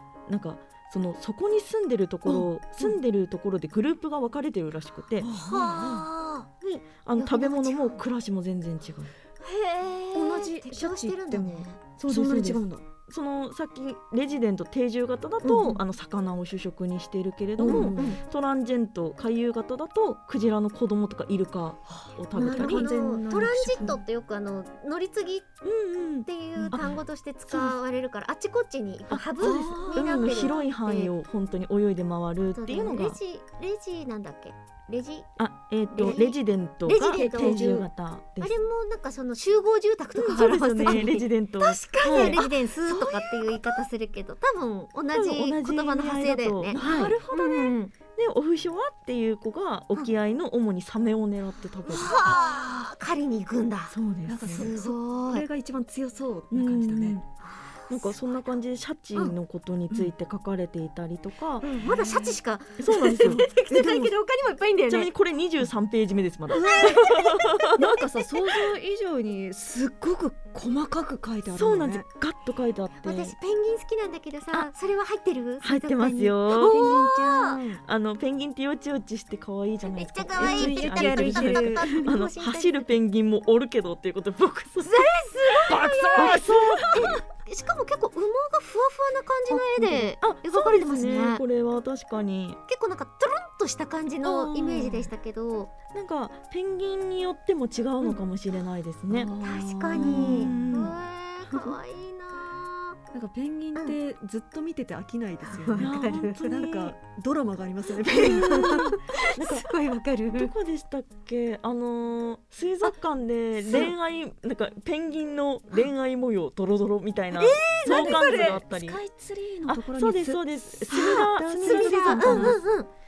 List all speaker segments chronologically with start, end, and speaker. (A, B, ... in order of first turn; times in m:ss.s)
0:00.3-0:05.3 A
0:02.2-0:02.9 B
0:05.2-0:06.1 B
0:05.4-0:06.5 C
0:06.6-0:09.1 A
0:07.2-0:08.0 C
0:09.4-0:11.8 C
0:10.1-0:12.8 B
0:12.0-0:22.9 A
0:15.4-0:15.8 C
0:17.6-0:18.2 B
0:17.6-0:18.2 C
0:21.9-0:24.0 B
0:22.4-0:25.6 C
0:25.6-0:27.0 A
0:26.2-0:31.1 C
0:26.7-0:26.9 B
0:29.1-0:33.2 A
0:29.4-0:30.2 B
0:32.5-0:35.3 C
0:35.4-0:38.6 A
0:35.9-0:37.9 C
0:37.0-0:37.8 B
0:38.4-0:47.9 C
0:40.1-0:43.4 A
0:40.8-0:41.1 B
0:42.1-0:42.4 B
0:45.1-0:47.2 A
0:46.7-0:47.7 B
0:48.1-0:52.2 A
0:51.9-0:55.4 C
0:51.9-0:52.4 B
0:53.9-0:54.7 A
0:54.2-0:57.2 B
0:56.5-0:57.2 A
0:57.4-0:58.4 C
0:57.9-1:01.7 A
1:01.6-1:05.1 C
1:01.8-1:02.4 B
1:02.8-1:03.5 A
1:03.2-1:04.1 B
1:04.9-1:08.0 A
1:06.5-1:12.0 B
1:06.6-1:07.7 C
1:11.5-1:13.3 A
1:13.0-1:17.6 C
1:15.6-1:17.1 A
1:16.7-1:17.8 B
1:17.8-1:25.1 A
1:19.9-1:22.9 C
1:20.4-1:22.1 B
1:24.8-1:31.4 C
1:25.5-1:27.1 B
1:26.1-1:27.2 A
1:29.5-1:32.6 A
1:32.7-1:35.7 C
1:34.3-1:35.0 A
1:35.9-1:39.3 A
1:39.1-1:40.7 B
1:39.4-1:43.0 C
1:39.9-1:41.0 A
1:43.1-1:49.1 B
1:45.5-1:46.3 C
1:45.8-1:46.9 A
1:48.2-1:49.7 A
1:48.3-1:50.5 C
1:50.3-1:59.0 A
1:57.4-2:02.6 B
1:57.8-1:58.5 C
1:59.7-2:02.6 A
2:00.9-2:02.9 C